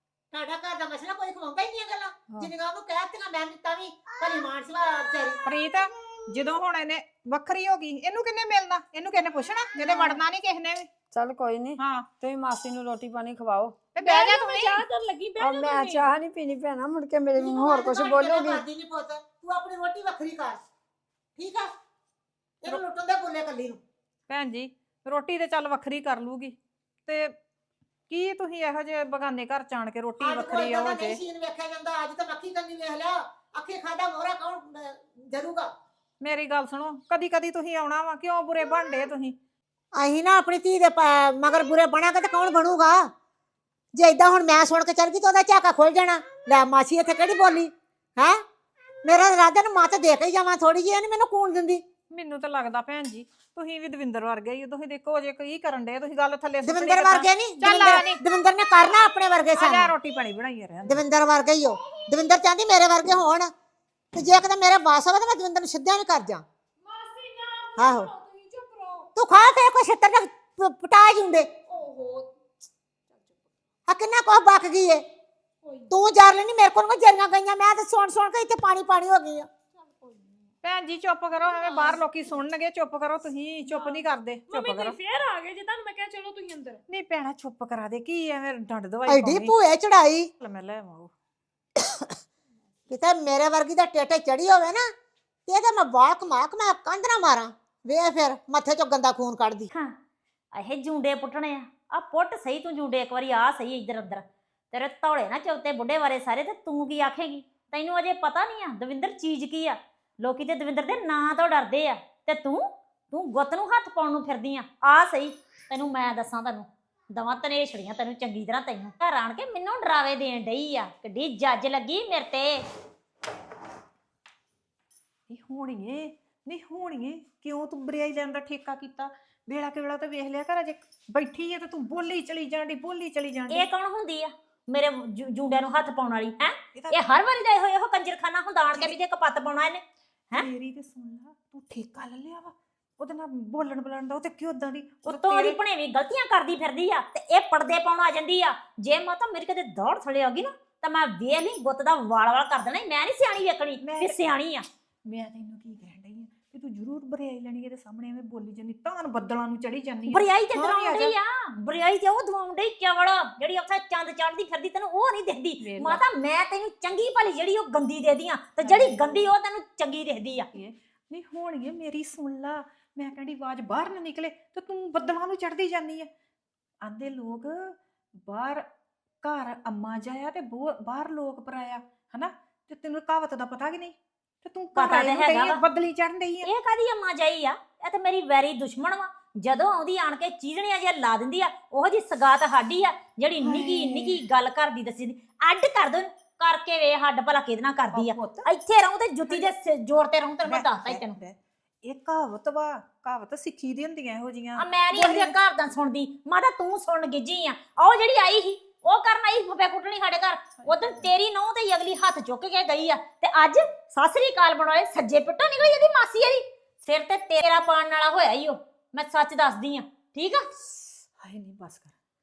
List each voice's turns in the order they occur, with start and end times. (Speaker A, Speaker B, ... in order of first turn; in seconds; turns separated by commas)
Speaker A: 0.3-5.4, Speaker B: 5.5-10.9, Speaker C: 9.8-10.1, Speaker C: 11.1-13.8, Speaker B: 11.8-12.1, Speaker B: 13.9-14.8, Speaker D: 14.0-16.1, Speaker C: 15.4-18.6, Speaker A: 17.4-20.6, Speaker A: 21.4-21.7, Speaker A: 22.6-23.8, Speaker B: 24.3-27.4, Speaker B: 28.1-31.2, Speaker A: 30.2-35.7, Speaker B: 36.2-39.4, Speaker A: 40.0-43.1, Speaker A: 43.9-48.4, Speaker A: 49.0-51.8, Speaker B: 52.1-58.2, Speaker A: 56.6-59.9, Speaker B: 59.5-61.0, Speaker A: 60.9-63.5, Speaker A: 64.1-66.4, Speaker D: 66.8-69.1, Speaker A: 67.8-68.1, Speaker A: 69.2-71.5, Speaker D: 71.7-72.4, Speaker D: 73.1-73.5, Speaker A: 73.9-75.0, Speaker D: 75.6-75.9, Speaker A: 75.9-79.5, Speaker D: 79.8-80.5, Speaker B: 80.6-85.0, Speaker D: 81.4-82.0, Speaker D: 83.7-86.8, Speaker B: 86.9-89.5, Speaker A: 89.1-90.3, Speaker B: 90.4-91.1, Speaker A: 91.8-92.1, Speaker A: 92.9-94.9, Speaker A: 95.5-99.7, Speaker E: 100.5-122.6, Speaker B: 125.3-133.7, Speaker E: 133.5-140.5, Speaker B: 136.8-137.0, Speaker B: 138.7-139.0, Speaker B: 140.3-145.6, Speaker E: 145.1-154.7, Speaker B: 153.8-154.3, Speaker B: 155.1-161.2, Speaker E: 160.1-170.5, Speaker B: 165.6-166.0, Speaker B: 168.6-169.3, Speaker B: 170.5-176.1, Speaker B: 176.8-178.7, Speaker B: 179.2-186.5, Speaker E: 184.8-185.6, Speaker E: 186.4-201.2, Speaker B: 193.4-194.2, Speaker B: 197.9-198.5, Speaker B: 199.3-199.5, Speaker B: 200.4-205.3, Speaker E: 204.6-220.5, Speaker B: 210.6-211.0, Speaker B: 220.8-221.9